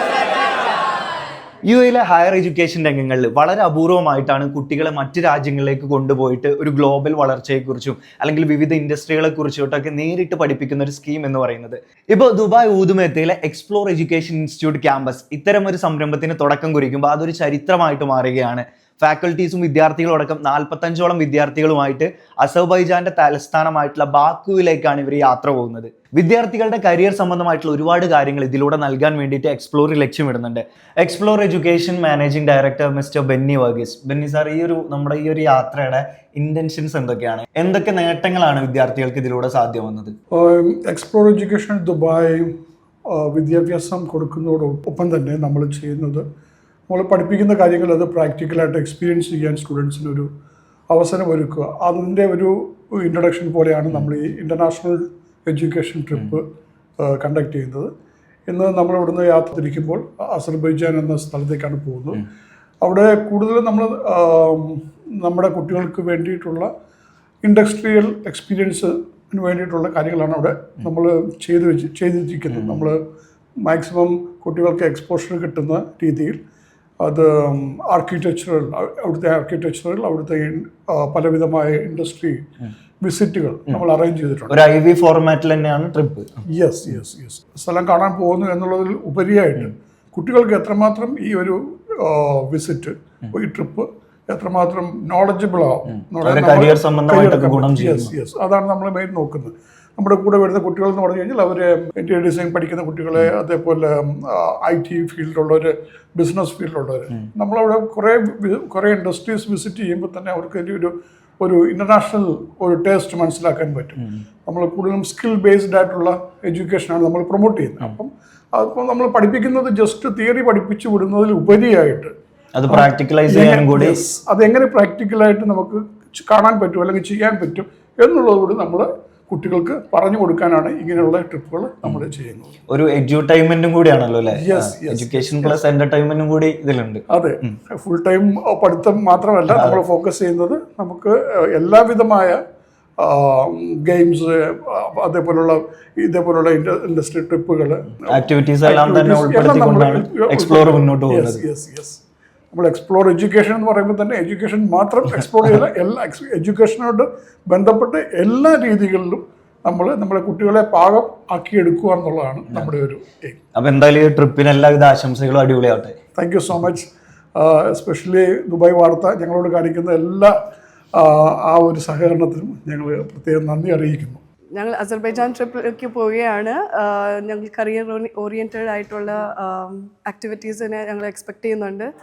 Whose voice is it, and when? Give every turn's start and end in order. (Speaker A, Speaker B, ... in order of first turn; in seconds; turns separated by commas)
Speaker A: 1.6-40.1, Speaker B: 40.3-42.5, Speaker B: 43.1-46.2, Speaker B: 46.9-50.3, Speaker B: 50.9-56.4, Speaker B: 57.0-57.9, Speaker B: 58.5-62.2, Speaker B: 62.8-66.7, Speaker B: 67.4-73.0, Speaker B: 73.6-76.4, Speaker B: 77.0-82.4, Speaker B: 83.0-84.6, Speaker A: 84.5-86.3, Speaker B: 86.5-122.1, Speaker A: 96.2-98.1, Speaker A: 122.5-124.0, Speaker B: 122.7-132.6, Speaker A: 132.7-137.0, Speaker B: 134.3-135.6, Speaker B: 137.1-142.4, Speaker B: 143.0-152.0, Speaker A: 148.1-151.4, Speaker B: 152.5-163.4, Speaker A: 163.5-165.9, Speaker B: 166.2-170.3, Speaker B: 170.9-174.2, Speaker C: 174.6-181.9